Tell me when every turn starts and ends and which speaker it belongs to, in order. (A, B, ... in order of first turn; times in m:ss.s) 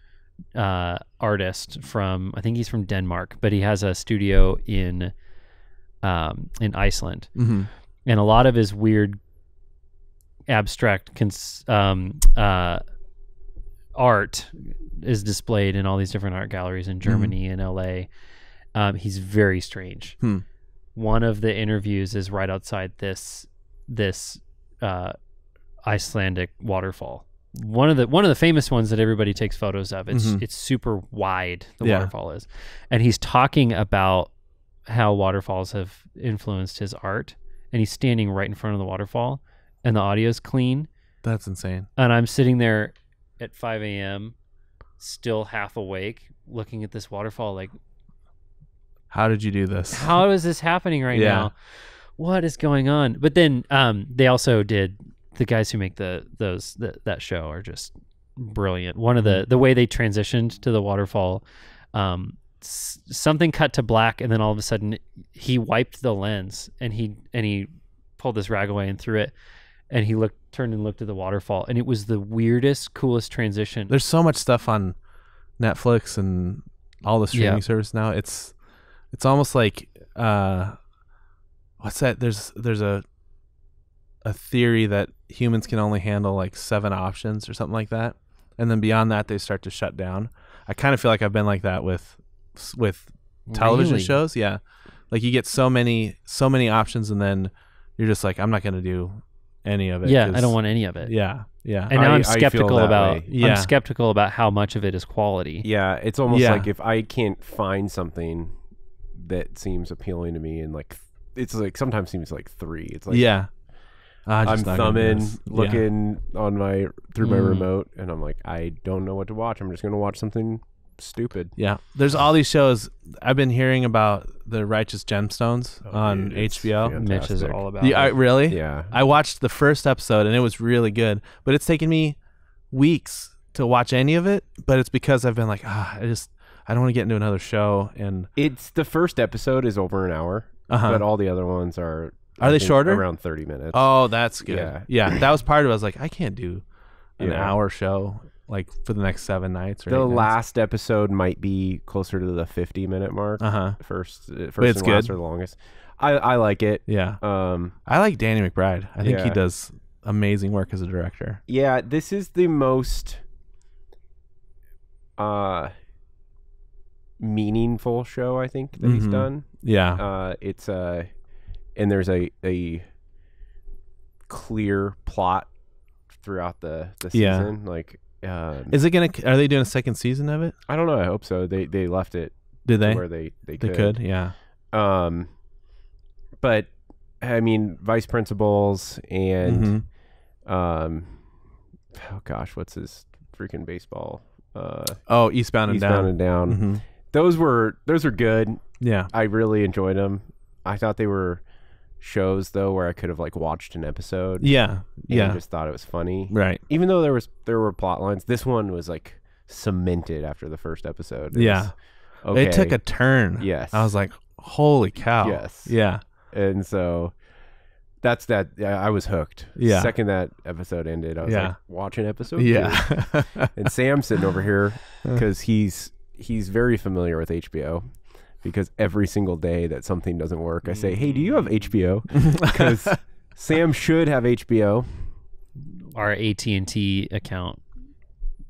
0:00.6-0:05.1 A
0:06.0-0:07.4 A
0:07.4-0:07.7 B
0:08.1-0:09.2 A
0:10.5-0:12.8 A
0:14.0-0:18.1 A
0:17.0-0:17.3 B
0:18.8-0:20.2 A
0:21.0-0:25.2 A
0:25.8-0:34.3 A
0:30.1-0:30.4 B
0:31.8-0:32.1 B
0:34.9-0:40.9 A
0:41.2-0:41.9 B
0:42.0-0:44.4 A
0:45.0-0:47.7 A
0:49.1-0:50.2 B
0:49.9-1:09.3 A
0:51.1-0:51.5 B
0:59.2-0:59.4 B
1:09.9-1:13.9 A
1:13.9-1:15.0 B
1:15.6-1:18.6 B
1:17.3-1:17.6 A
1:19.1-1:20.8 B
1:21.8-1:23.0 B
1:24.2-1:34.6 B
1:33.5-1:34.2 A
1:35.1-1:41.9 B
1:40.0-1:41.2 A
1:41.9-1:45.7 A
1:41.9-1:43.3 C
1:43.3-1:43.7 B
1:45.6-1:48.6 C
1:46.3-1:46.7 B
1:49.1-1:53.3 C
1:53.1-1:53.5 B
1:54.3-1:55.8 B
1:54.4-2:01.5 C
1:57.2-1:57.7 A
2:01.6-2:07.0 B
2:05.9-2:07.6 C
2:07.0-2:08.2 A
2:07.8-2:12.2 B
2:08.5-2:08.9 C
2:12.7-2:18.3 B
2:18.4-2:23.9 C
2:20.7-2:21.0 B
2:22.4-2:23.0 B
2:23.7-2:26.6 B
2:24.4-2:25.2 C
2:27.2-2:30.3 B
2:27.2-2:27.6 C
2:29.9-2:37.8 C
2:33.4-2:33.8 B
2:34.6-2:35.1 B
2:36.9-2:37.2 B
2:37.8-2:41.4 B
2:39.0-2:39.4 C
2:41.5-2:43.2 C
2:45.2-2:45.7 C
2:47.2-2:51.1 C
2:48.8-2:50.0 B
2:51.8-2:52.9 C
2:54.3-2:55.5 C
2:56.2-2:58.8 C
2:57.1-2:57.5 B
2:58.7-3:00.6 B
3:00.7-3:04.0 C
3:02.7-3:04.3 B
3:04.7-3:05.3 C
3:06.4-3:09.8 C
3:09.4-3:09.8 B
3:10.4-3:11.3 C
3:11.9-3:15.1 C
3:15.1-3:16.8 B
3:15.7-3:21.4 C
3:18.8-3:19.1 B
3:22.0-3:32.8 C
3:24.4-3:25.4 B
3:26.3-3:26.6 B
3:31.3-3:31.7 B
3:32.3-3:36.0 B
3:33.4-3:33.9 C
3:35.2-3:37.2 C
3:38.0-3:55.2 C
3:39.6-3:39.9 B
3:41.2-3:41.6 B
3:42.4-3:43.5 B
3:52.2-3:53.0 B
3:55.9-3:57.6 A